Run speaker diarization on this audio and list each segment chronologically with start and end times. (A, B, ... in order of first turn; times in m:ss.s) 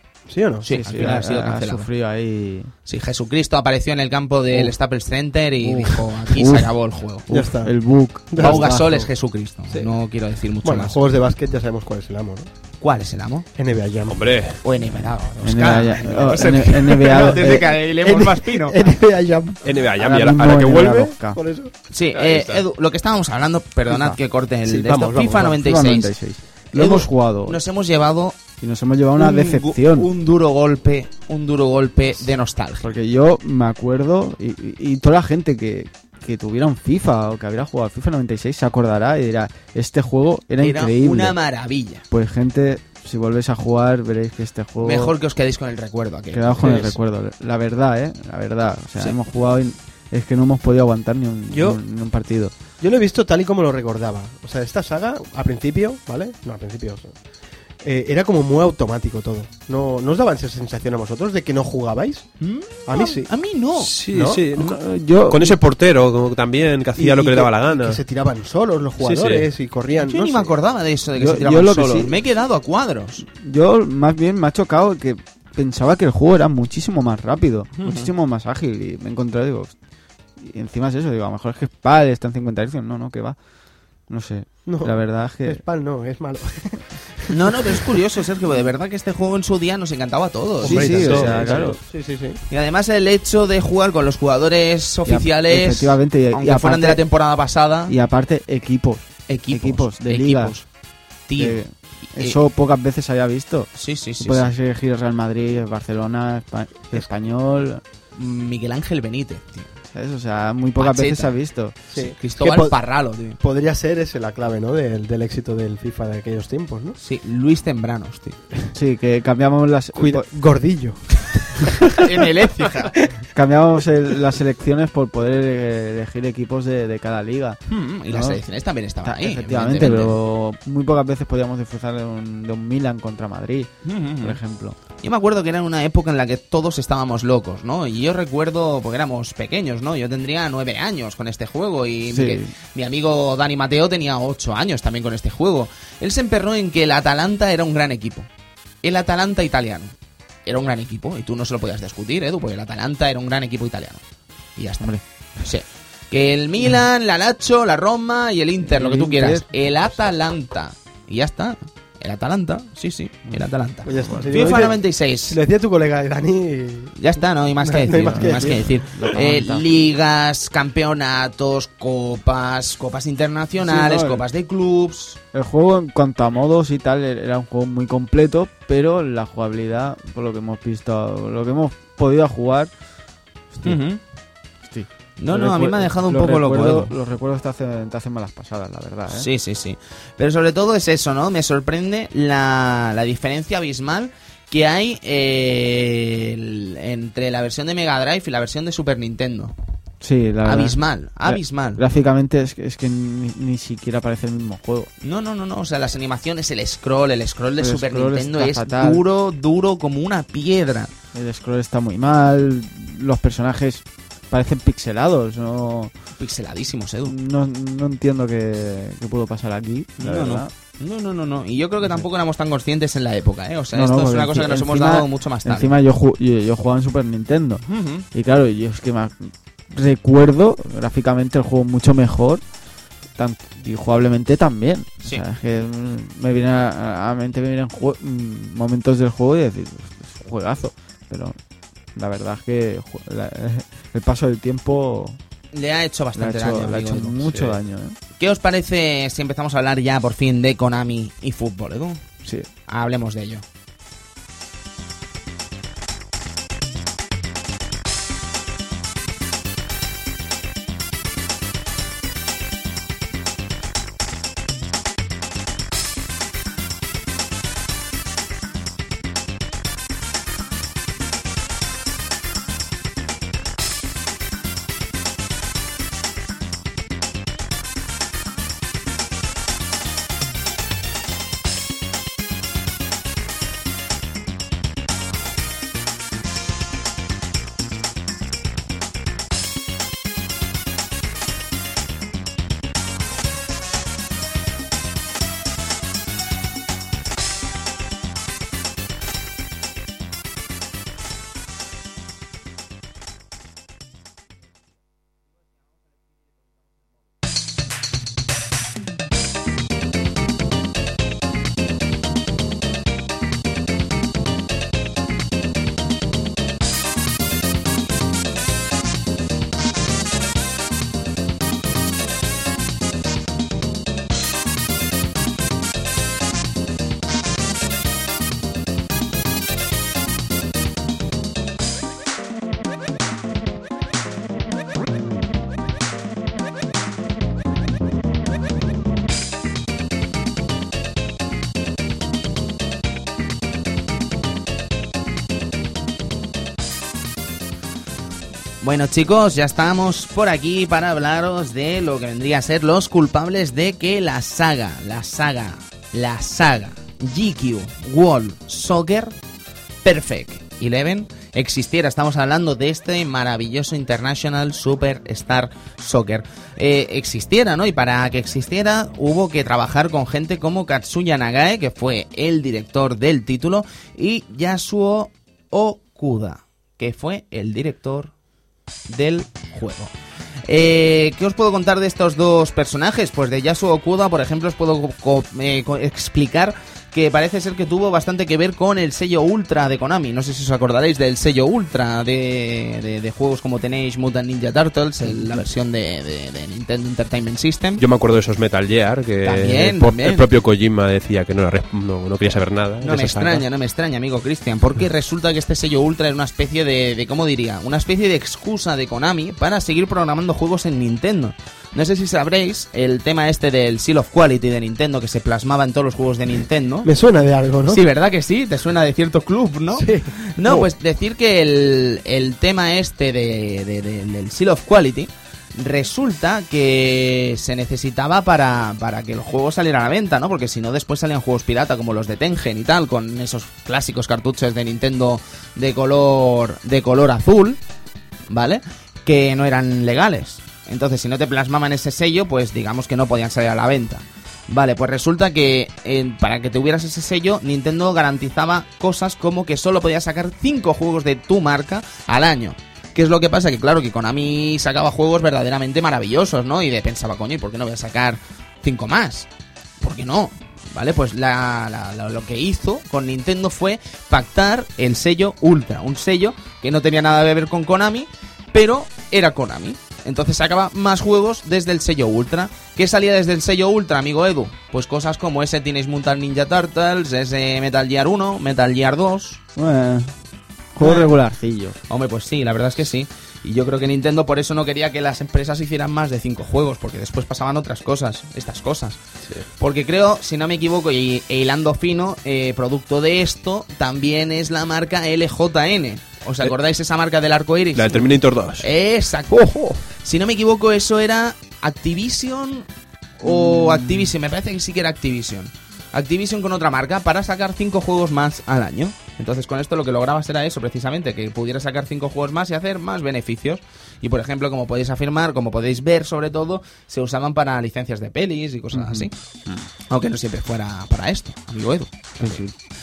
0:00.3-0:00.7 A
0:00.6-0:01.9 B
0:00.7-0:02.7 C
0:02.8-0:07.3 B
0:05.6-0:06.7 C
0:07.3-0:09.1 C
0:07.3-0:07.8 A
0:08.3-0:08.8 A
0:08.4-0:11.0 B
0:09.7-0:10.0 A
0:10.6-0:12.5 A
0:12.8-0:13.5 B
0:13.6-0:14.3 A
0:14.1-0:14.6 D
0:14.6-0:18.8 B
0:15.4-0:17.7 C
0:17.0-0:19.6 A
0:19.6-0:21.1 D
0:20.0-0:21.4 C
0:21.2-0:21.7 A
0:21.9-0:26.1 B
0:22.1-0:22.6 D
0:23.9-0:24.2 C
0:24.6-0:25.6 A
0:25.4-0:27.6 C
0:26.7-0:28.4 B
0:28.6-0:30.1 C
0:29.2-0:32.9 B
0:32.8-0:41.4 C
0:40.6-0:42.0 B
0:42.1-0:45.2 C
0:44.8-0:47.0 B
0:46.3-0:52.5 C
0:51.5-0:51.8 A
0:52.8-0:57.1 A
0:57.8-1:02.3 A
1:02.4-1:03.9 B
1:02.9-1:03.3 A
1:03.8-1:08.0 D
1:04.1-1:04.4 A
1:04.5-1:05.6 C
1:07.0-1:10.5 A
1:09.0-1:09.5 D
1:10.0-1:13.2 B
1:11.2-1:12.1 C
1:13.3-1:19.7 C
1:17.8-1:18.1 B
1:20.4-1:23.4 C
1:24.1-1:25.6 C
1:24.6-1:26.8 A
1:27.3-1:31.8 B
1:30.6-1:32.4 A
1:30.6-1:31.8 C
1:32.5-1:37.9 B
1:35.0-1:37.0 C
1:37.9-1:40.6 C
1:39.3-1:40.6 B
1:41.3-1:42.4 B
1:41.4-1:47.8 C
1:43.7-1:44.5 B
1:48.1-1:49.7 B
1:49.9-1:51.8 C
1:50.8-1:51.3 B
1:51.9-1:52.8 A
1:51.9-1:53.4 B
1:53.4-1:57.0 A
1:57.0-1:58.4 B
1:58.7-2:00.3 C
2:00.0-2:01.9 A
2:01.9-2:02.9 B
2:03.3-2:08.4 C
2:07.7-2:10.2 B
2:09.0-2:14.8 C
2:13.8-2:14.4 B
2:15.0-2:28.3 B
2:22.1-2:22.5 C
2:28.8-2:29.9 B
2:30.4-2:34.0 B
2:34.6-2:45.4 B
2:38.6-2:39.6 C
2:43.3-2:44.7 C
2:43.8-2:46.9 A
2:47.0-2:55.2 B
2:47.6-2:48.8 A
2:47.9-2:49.6 C
2:53.6-2:54.2 C
2:55.3-3:02.7 C
3:03.5-3:03.8 C
3:03.6-3:04.0 B
3:04.6-3:09.3 C
3:05.2-3:06.9 B
3:09.1-3:19.5 B
3:20.0-3:24.9 C
3:20.4-3:21.8 B
3:25.0-3:30.9 B
3:27.6-3:29.0 C
3:31.1-3:35.9 C
3:36.2-3:37.2 B
3:37.0-3:40.5 C
3:40.0-3:45.7 B
3:43.7-3:52.4 C
3:47.7-3:48.0 B
3:53.2-4:01.4 C
4:01.9-4:05.2 C
4:05.5-4:07.2 B
4:06.1-4:08.0 C
4:07.2-4:07.6 D
4:08.2-4:12.0 B
4:12.7-4:13.4 B
5:48.6-5:59.2 B
5:59.8-6:18.1 B
6:18.9-6:19.9 B
6:20.4-6:37.8 B
6:37.8-6:43.4 D
6:39.2-6:40.3 B
6:42.8-6:56.9 B
6:56.8-6:57.8 A
6:57.7-7:17.6 B
6:59.7-7:00.7 A
7:18.3-7:39.3 B
7:39.8-7:59.4 B
7:59.6-8:00.1 C
8:00.7-8:01.8 C
8:01.9-8:09.0 B
8:09.6-8:22.7 B
8:17.8-8:18.7 D
8:23.2-8:39.1 B
8:23.2-8:24.1 C
8:38.7-8:39.6 C
8:39.9-8:42.4 B
8:42.2-8:42.5 C